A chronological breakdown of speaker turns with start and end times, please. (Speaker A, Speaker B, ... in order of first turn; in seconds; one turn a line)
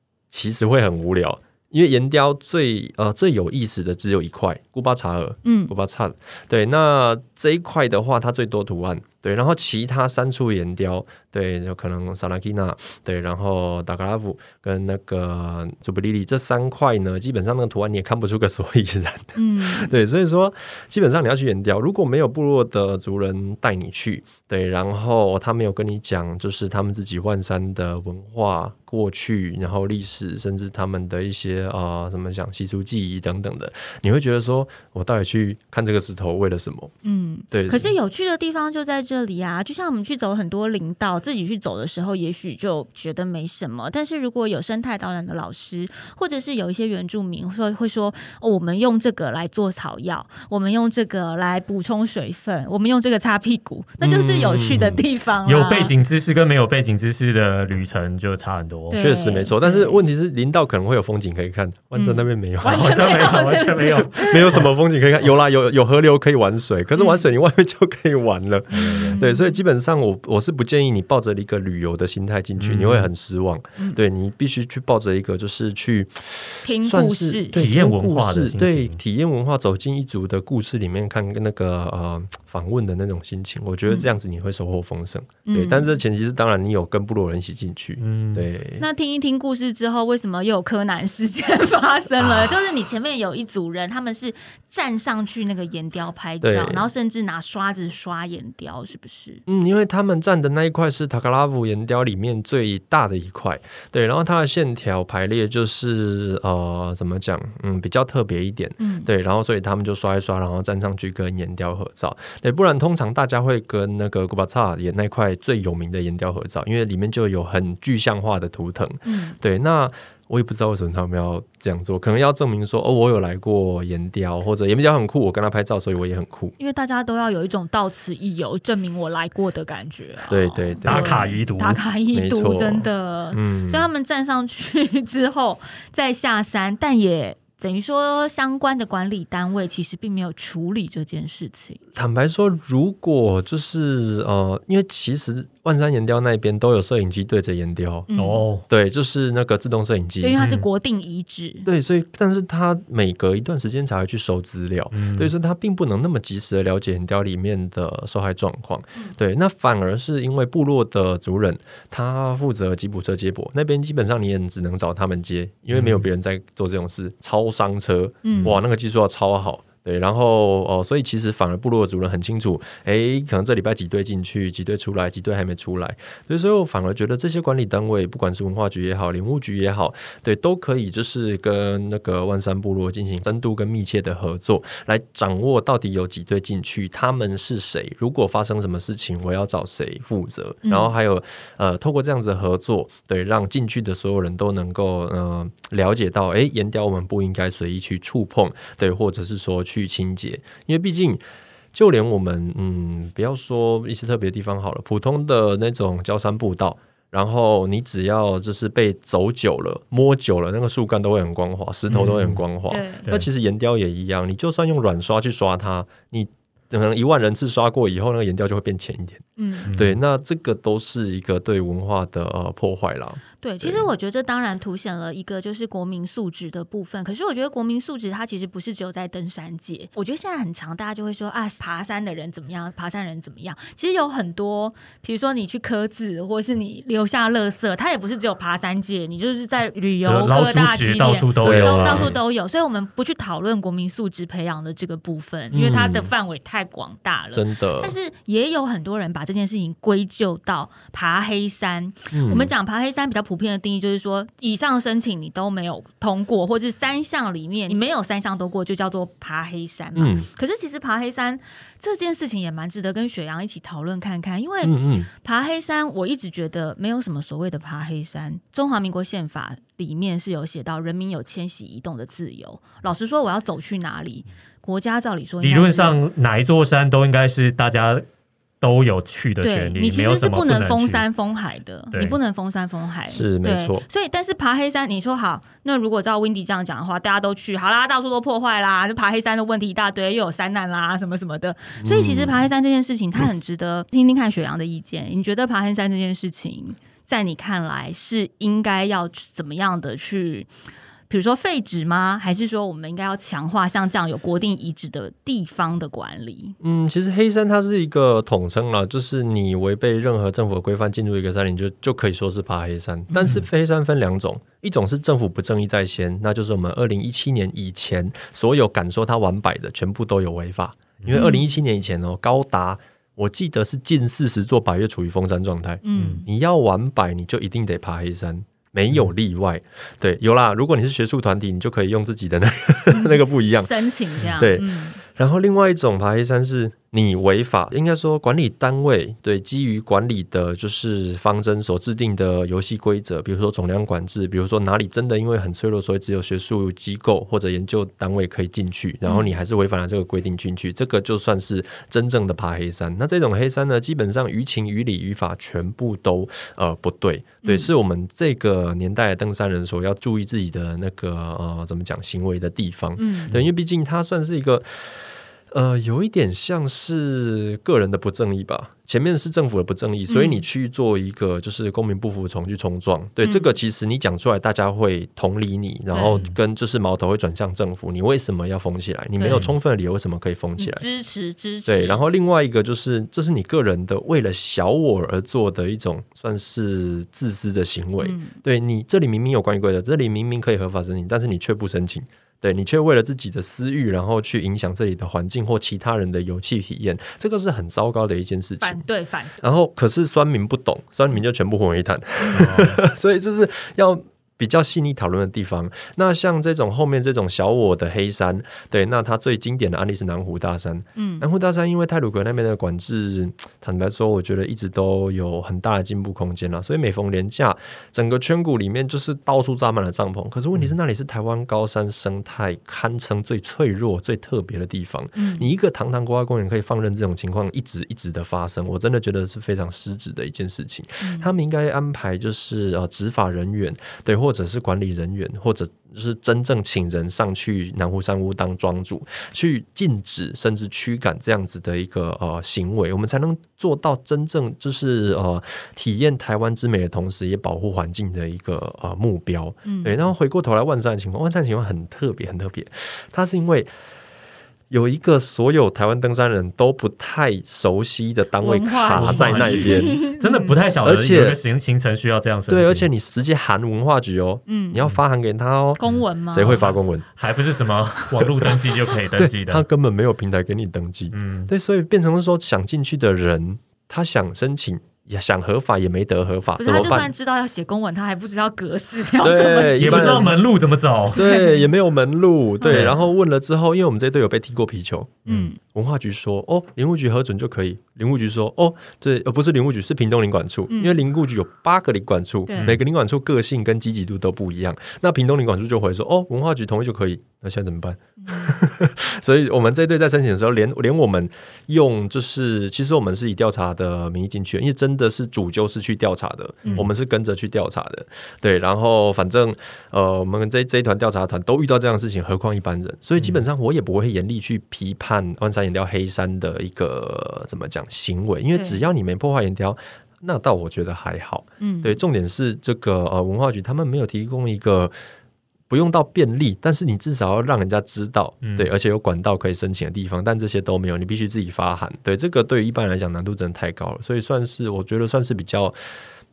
Speaker A: 0.3-36.9
Speaker B: 5.4-5.7
Speaker B: 19.4-19.9
Speaker B: 37.0-55.9
Speaker A: 37.5-37.9
Speaker A: 54.0-55.0
Speaker C: 54.8-59.0
Speaker B: 58.9-60.0
Speaker A: 58.9-63.1
Speaker B: 61.9-64.7
Speaker C: 62.6-64.7
Speaker A: 64.2-88.8
Speaker B: 67.0-67.2
Speaker B: 68.7-69.6
Speaker C: 68.7-69.2
Speaker C: 72.6-73.1
Speaker B: 76.6-77.6
Speaker C: 77.5-79.0
Speaker B: 85.5-86.0
Speaker C: 88.0-88.5
Speaker B: 88.8-99.4
Speaker A: 96.4-96.9
Speaker A: 99.5-126.5
Speaker B: 108.8-109.1
Speaker B: 119.0-119.4
Speaker B: 126.6-141.8
Speaker A: 130.3-131.2
Speaker C: 130.8-131.8
Speaker A: 132.1-133.9
Speaker A: 141.9-148.1
Speaker B: 148.1-148.4
Speaker C: 148.1-148.6
Speaker A: 148.7-150.3
Speaker B: 150.2-151.7
Speaker C: 150.4-150.7
Speaker A: 151.6-201.2
Speaker C: 154.9-155.3
Speaker C: 165.7-166.1
Speaker B: 168.2-168.6
Speaker C: 168.3-168.6
Speaker B: 190.6-190.9
Speaker A: 201.7-223.9
Speaker C: 211.9-212.4
Speaker B: 212.7-213.1
Speaker B: 219.4-219.7
Speaker C: 219.6-220.0
Speaker B: 223.4-276.0
Speaker C: 240.0-242.2
Speaker A: 241.4-242.1
Speaker A: 245.5-246.1
Speaker A: 247.3-247.9
Speaker A: 252.1-252.5
Speaker A: 259.9-260.3
Speaker A: 264.6-265.1
Speaker C: 275.4-278.0
Speaker C: 278.6-281.0
Speaker B: 279.4-300.5
Speaker C: 281.9-282.2
Speaker A: 283.1-283.8
Speaker A: 291.8-292.5
Speaker B: 301.1-306.6
Speaker A: 306.6-333.8
Speaker B: 313.1-313.4
Speaker C: 321.0-321.3
Speaker B: 321.1-321.5
Speaker B: 325.8-326.3
Speaker C: 325.9-326.2
Speaker B: 332.9-335.0
Speaker A: 334.4-380.8
Speaker B: 349.1-349.4
Speaker B: 357.4-357.7
Speaker B: 363.0-363.3
Speaker B: 370.1-370.4
Speaker B: 373.2-373.5
Speaker B: 375.9-376.2
Speaker C: 379.3-379.6
Speaker B: 380.6-382.0
Speaker A: 381.6-398.8
Speaker B: 388.0-388.3
Speaker B: 398.6-399.4
Speaker A: 399.4-453.7
Speaker C: 402.3-402.8
Speaker B: 410.9-411.2
Speaker B: 425.1-425.5
Speaker B: 431.0-431.3
Speaker B: 449.6-449.9
Speaker A: 454.7-460.1
Speaker B: 458.4-460.6
Speaker C: 458.9-462.9
Speaker A: 460.8-461.4
Speaker A: 462.5-465.8
Speaker B: 464.5-464.9
Speaker B: 465.8-466.6
Speaker C: 465.8-469.6
Speaker A: 466.3-467.1
Speaker B: 468.0-468.6
Speaker A: 469.1-477.1
Speaker C: 471.1-471.5
Speaker B: 476.6-480.3
Speaker A: 479.2-480.4
Speaker C: 479.8-481.2
Speaker A: 481.1-524.9
Speaker B: 481.1-481.7
Speaker B: 482.6-483.1
Speaker C: 482.7-483.0
Speaker B: 485.3-485.6
Speaker B: 490.7-491.0
Speaker B: 492.5-492.8
Speaker B: 498.2-498.6
Speaker C: 506.6-506.9
Speaker C: 513.2-513.4
Speaker B: 518.5-518.8
Speaker B: 521.6-522.0
Speaker A: 525.7-535.8
Speaker C: 528.4-528.7